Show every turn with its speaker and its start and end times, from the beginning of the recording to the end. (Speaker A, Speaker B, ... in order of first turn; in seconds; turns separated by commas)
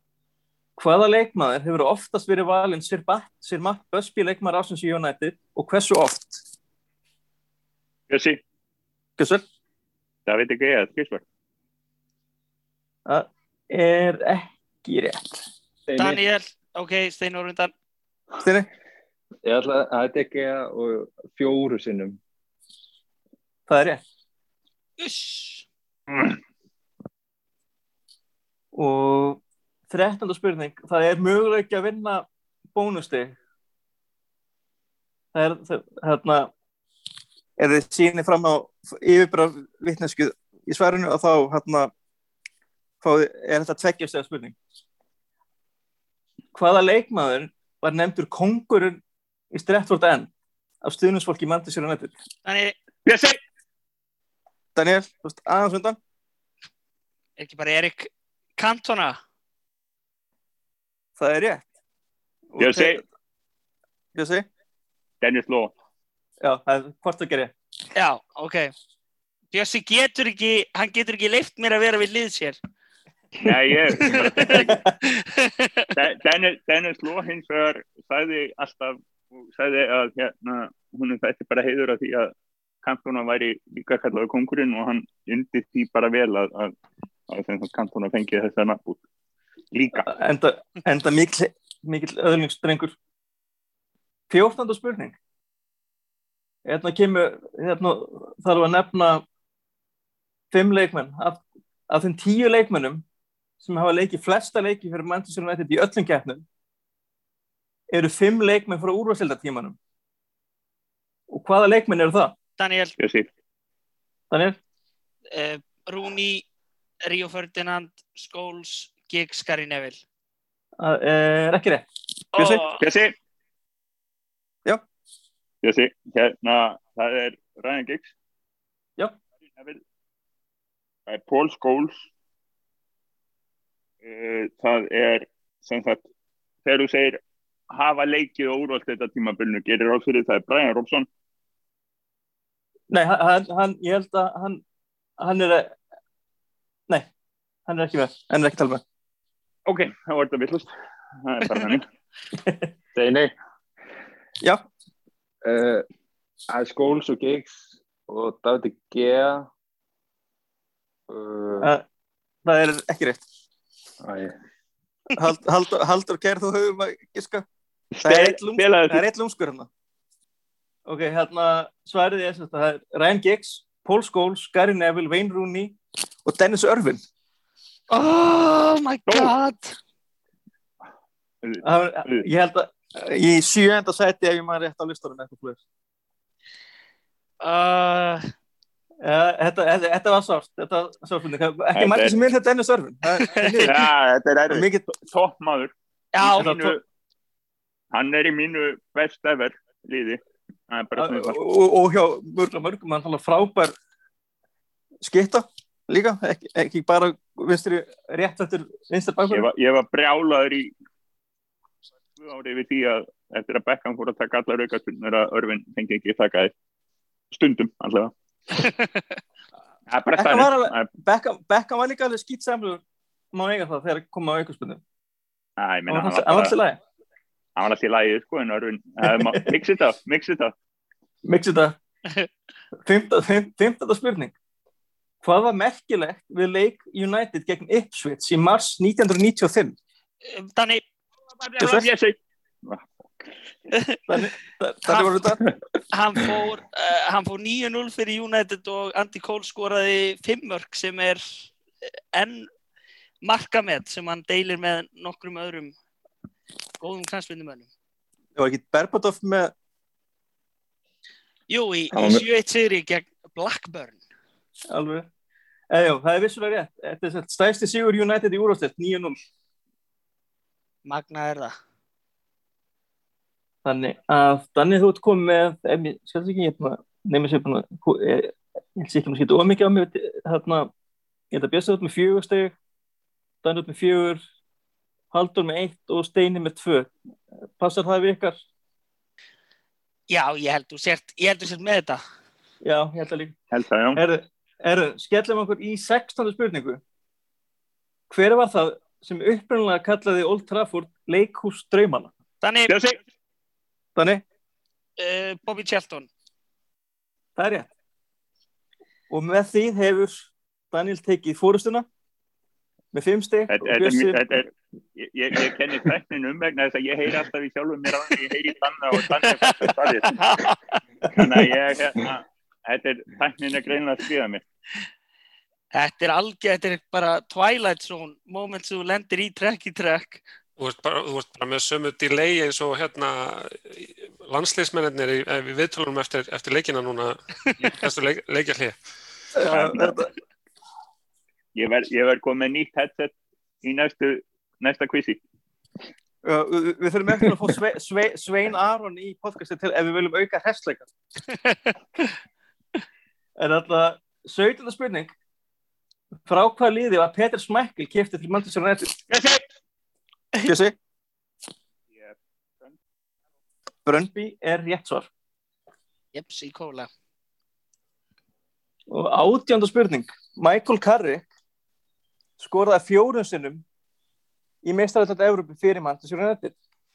Speaker A: 0.8-6.4, Speaker B: 8.1-8.4, Speaker A: 9.2-9.4, Speaker B: 10.3-11.2, Speaker A: 13.1-15.4, Speaker C: 15.9-16.2, Speaker D: 16.0-17.7, Speaker A: 18.4-18.7, Speaker C: 19.4-22.2, Speaker A: 23.7-24.0, Speaker D: 25.0-25.6, Speaker B: 26.1-26.3, Speaker A: 28.8-33.4, Speaker A: 35.3-36.5, Speaker A: 37.6-41.9, Speaker A: 43.0-44.5, Speaker A: 46.5-49.0, Speaker A: 49.5-50.3, Speaker A: 50.8-52.1, Speaker D: 52.4-52.8, Speaker B: 53.0-53.4, Speaker A: 54.8-56.0, Speaker D: 57.4-59.2, Speaker A: 61.2-61.7, Speaker A: 62.5-63.0, Speaker B: 62.6-63.0, Speaker A: 64.1-64.5, Speaker B: 65.2-65.7, Speaker A: 66.4-67.5, Speaker D: 67.9-68.7, Speaker D: 69.5-72.6, Speaker B: 73.4-74.8, Speaker D: 74.0-75.9, Speaker A: 74.5-74.8, Speaker B: 75.9-82.3, Speaker B: 82.8-86.7, Speaker B: 87.3-89.0, Speaker B: 89.7-90.1, Speaker A: 90.0-93.0, Speaker A: 94.3-95.2, Speaker A: 96.6-99.2, Speaker A: 100.5-103.0, Speaker A: 103.6-106.4, Speaker A: 107.9-109.8, Speaker A: 111.3-112.3, Speaker D: 112.6-112.9, Speaker B: 113.0-113.3, Speaker A: 114.3-114.6, Speaker D: 115.3-116.4, Speaker D: 117.0-120.0, Speaker A: 120.8-122.6, Speaker D: 122.3-122.8, Speaker B: 122.8-123.1, Speaker B: 125.6-128.1, Speaker B: 129.5-129.8, Speaker B: 131.1-132.1, Speaker B: 134.0-136.0, Speaker B: 136.6-137.2, Speaker B: 137.7-141.1, Speaker A: 142.9-144.6, Speaker A: 145.2-145.7, Speaker A: 147.7-148.8, Speaker B: 149.7-150.7, Speaker B: 151.2-151.8, Speaker C: 152.9-153.3, Speaker C: 155.4-155.8, Speaker C: 156.5-159.5, Speaker C: 161.1-161.7, Speaker A: 162.4-163.2, Speaker C: 164.0-164.3, Speaker A: 165.1-167.4, Speaker B: 167.9-169.0, Speaker A: 168.0-169.7, Speaker A: 170.8-177.0, Speaker D: 177.9-179.8, Speaker B: 179.1-179.3, Speaker B: 181.4-182.2, Speaker A: 181.6-185.6, Speaker D: 187.4-188.2, Speaker A: 189.0-193.8, Speaker B: 191.7-192.2, Speaker D: 193.2-193.7, Speaker B: 193.6-196.8, Speaker A: 194.5-194.9, Speaker D: 196.1-196.5, Speaker A: 196.4-196.8, Speaker B: 197.9-201.4, Speaker A: 200.9-203.8, Speaker A: 205.0-209.5, Speaker B: 209.3-210.7, Speaker B: 212.2-216.5, Speaker B: 217.3-218.1, Speaker D: 218.5-219.0, Speaker B: 219.9-220.9, Speaker A: 220.2-224.8, Speaker B: 225.6-226.5, Speaker A: 225.9-226.8, Speaker B: 227.6-230.5, Speaker A: 229.0-229.5, Speaker A: 231.2-231.8, Speaker A: 232.8-234.3, Speaker A: 235.2-239.8, Speaker D: 240.3-240.8, Speaker B: 241.4-243.2, Speaker A: 241.6-241.9, Speaker D: 243.7-244.0, Speaker A: 244.1-245.4, Speaker D: 245.9-251.2, Speaker D: 252.1-252.5, Speaker D: 253.2-255.7, Speaker D: 256.8-257.7, Speaker A: 258.4-259.5, Speaker D: 261.5-264.0, Speaker C: 261.9-262.2, Speaker A: 264.7-265.1, Speaker A: 265.7-269.1, Speaker D: 270.8-271.5, Speaker A: 273.6-280.7, Speaker A: 281.3-282.5, Speaker A: 283.4-284.2, Speaker A: 285.1-286.9, Speaker A: 287.6-288.4, Speaker D: 290.1-292.0, Speaker A: 292.6-293.3, Speaker B: 293.5-294.0, Speaker A: 293.9-296.8, Speaker A: 298.1-302.1, Speaker D: 302.4-302.7, Speaker B: 302.7-303.0, Speaker A: 304.0-304.2, Speaker D: 305.0-306.1, Speaker A: 307.4-307.7, Speaker A: 309.1-311.9, Speaker A: 312.9-314.2, Speaker B: 313.5-320.4, Speaker D: 319.4-320.6, Speaker B: 321.1-324.4, Speaker D: 325.7-330.2, Speaker E: 330.6-338.8, Speaker A: 339.3-340.1, Speaker E: 339.5-340.0, Speaker B: 341.5-345.2, Speaker A: 346.2-350.9, Speaker D: 351.4-351.8, Speaker A: 353.4-355.1, Speaker A: 356.3-359.0, Speaker B: 359.1-359.4, Speaker A: 360.4-360.8, Speaker B: 361.9-362.7, Speaker A: 363.9-365.1, Speaker D: 366.1-366.9, Speaker A: 368.9-371.3, Speaker A: 372.4-373.6, Speaker A: 374.6-376.5